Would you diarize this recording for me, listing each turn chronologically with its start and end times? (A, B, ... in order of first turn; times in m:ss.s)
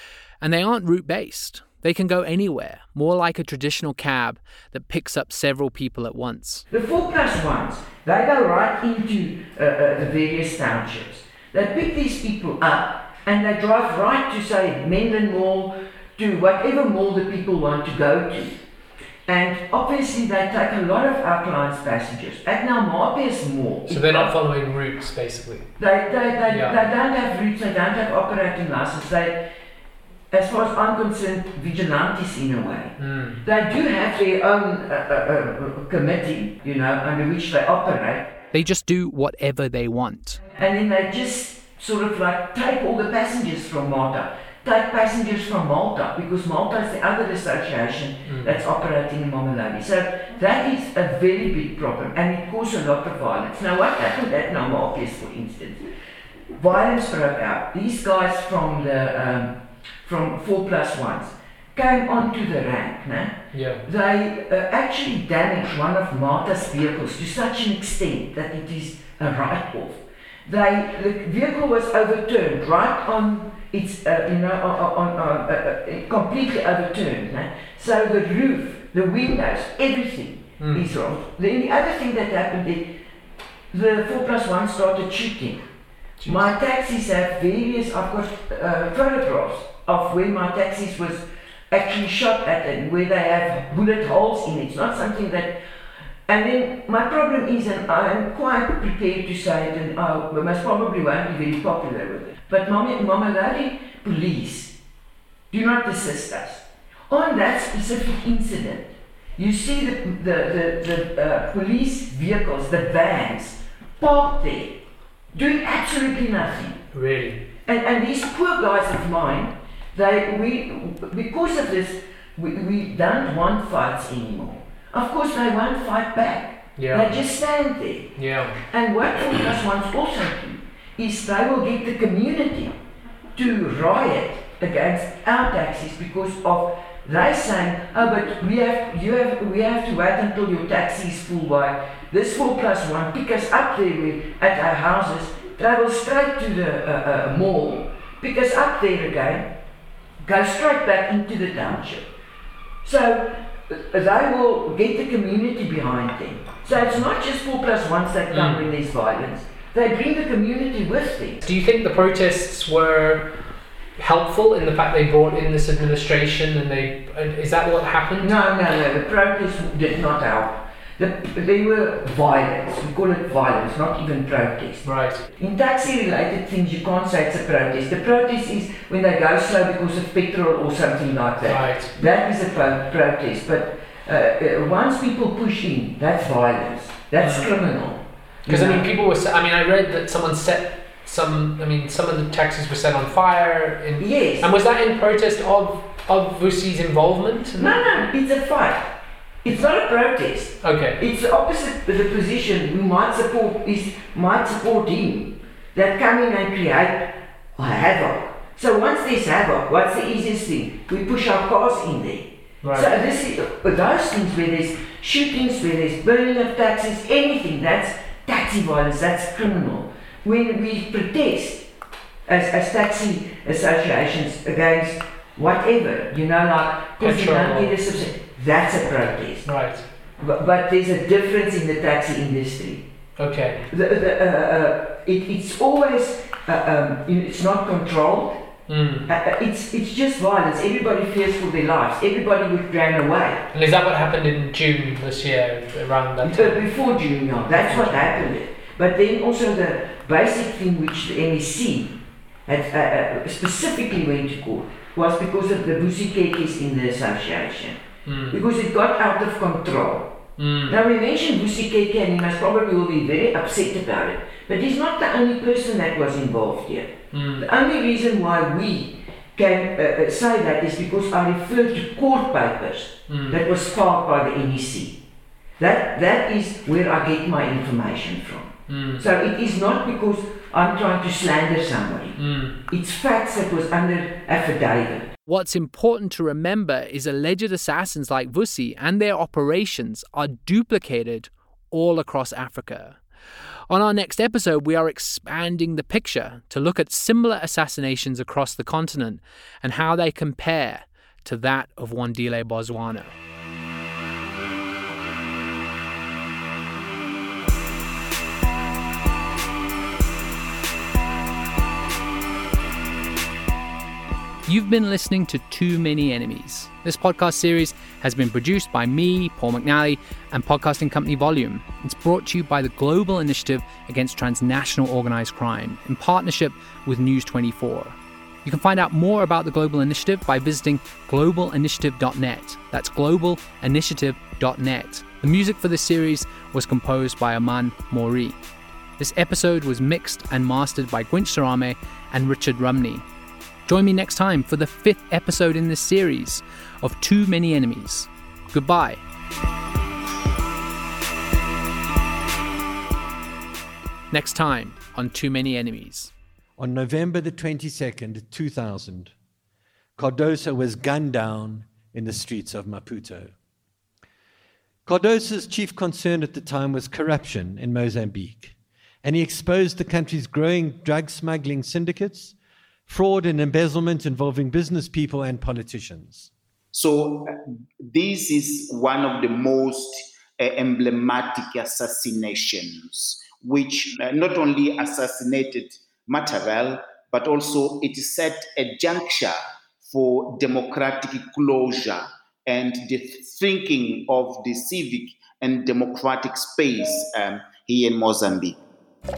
0:00.4-0:06.6 A
0:06.7-0:18.6 B
0:19.3-0:24.3 B
0:23.9-0:25.7 C
0:25.8-0:29.4 B
0:26.5-0:26.8 C
0:30.3-0:38.2 B
0:33.0-0:33.4 C
0:38.5-0:40.4 A
0:40.6-0:55.8 B
0:48.3-0:48.6 C
0:56.6-1:22.9 B
1:03.5-1:03.8 C
1:20.6-1:20.8 C
1:23.7-1:25.6 B
1:26.3-1:35.6 B
1:36.3-1:44.7 B
1:45.5-1:54.8 B
1:55.3-1:56.8 B
1:56.9-1:57.4 C
1:57.7-2:12.7 B
2:06.8-2:07.2 C
2:08.2-2:08.6 C
2:13.4-2:29.5 B
2:30.2-2:32.1 B
2:32.8-2:41.4 B
2:38.3-2:38.6 C
2:41.4-2:43.3 C
2:44.0-2:48.4 C
2:48.2-3:08.9 B
2:54.8-2:55.2 C
3:01.4-3:02.0 C
3:07.2-3:07.5 C
3:08.5-3:17.8 C
3:14.0-3:14.5 B
3:17.6-3:18.9 B
3:19.4-3:41.6 B
3:20.6-3:21.0 C
3:32.6-3:32.9 C
3:42.3-3:49.5 B
3:47.0-3:47.8 C
3:49.4-3:49.8 C
3:50.2-3:52.8 B
3:53.2-3:53.6 C
3:53.7-3:58.4 B
3:58.7-3:59.1 C
3:59.1-4:03.4 B
4:03.5-4:06.6 C
4:06.2-4:20.1 B
4:07.5-4:08.2 C
4:18.1-4:18.4 C
4:20.4-4:20.8 C
4:20.7-4:35.0 B
4:27.1-4:27.5 C
4:33.1-4:33.4 C
4:35.6-4:45.1 B
4:38.7-4:39.0 C
4:42.2-4:42.6 C
4:45.3-4:53.0 A
4:53.7-5:03.2 A
5:14.5-5:38.4 A
5:39.0-5:43.0 A
5:43.7-5:49.0 A
5:54.1-5:56.1 A
5:56.6-5:59.1 D
6:00.0-6:03.3 D
6:04.9-6:12.3 D
6:12.9-6:16.3 D
6:16.7-6:38.6 E